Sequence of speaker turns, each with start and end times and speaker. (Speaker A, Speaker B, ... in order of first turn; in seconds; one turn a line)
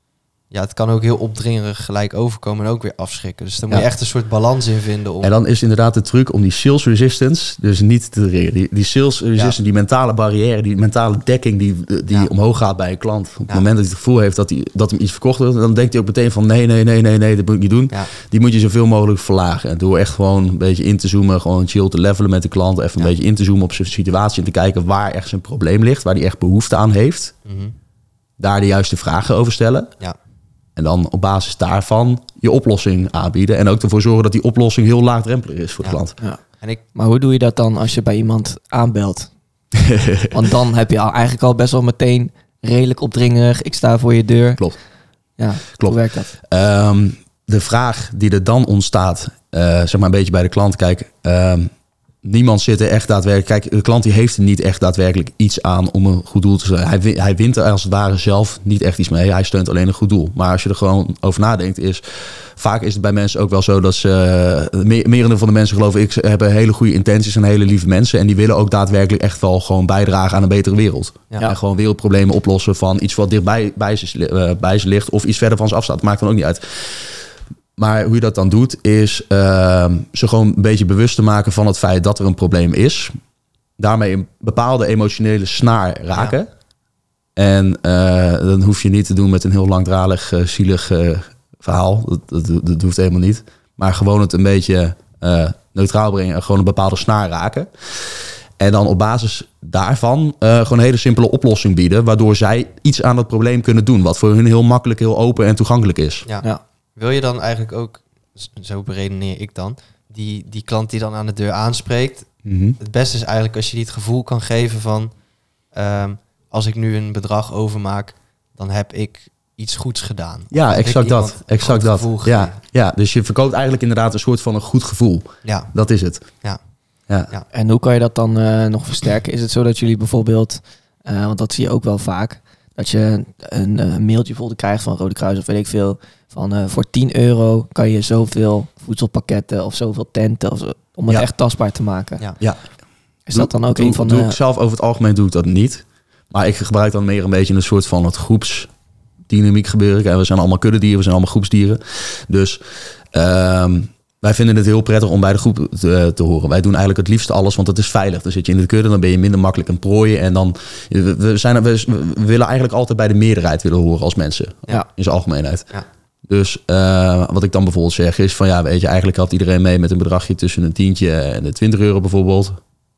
Speaker A: 0.5-5.3
Speaker B: 5.2-27.3
Speaker A: 27.5-27.7
Speaker B: 28.4-29.9
Speaker B: 30.8-36.2
Speaker C: 36.9-39.3
Speaker B: 39.8-40.3
Speaker C: 40.3-44.6
Speaker C: 45.4-46.3
Speaker B: 45.8-51.7
Speaker B: 52.2-77.2
Speaker B: 77.8-83.1
Speaker B: 83.8-86.5
Speaker B: 87.4-106.3
Speaker A: 106.3-115.1
Speaker B: 112.5-112.8
Speaker A: 115.7-122.6
Speaker B: 120.5-126.2
Speaker A: 125.5-125.7
Speaker C: 127.5-142.2
Speaker C: 143.3-144.4
Speaker B: 143.3-148.7
Speaker B: 149.3-165.7
Speaker B: 166.3-172.6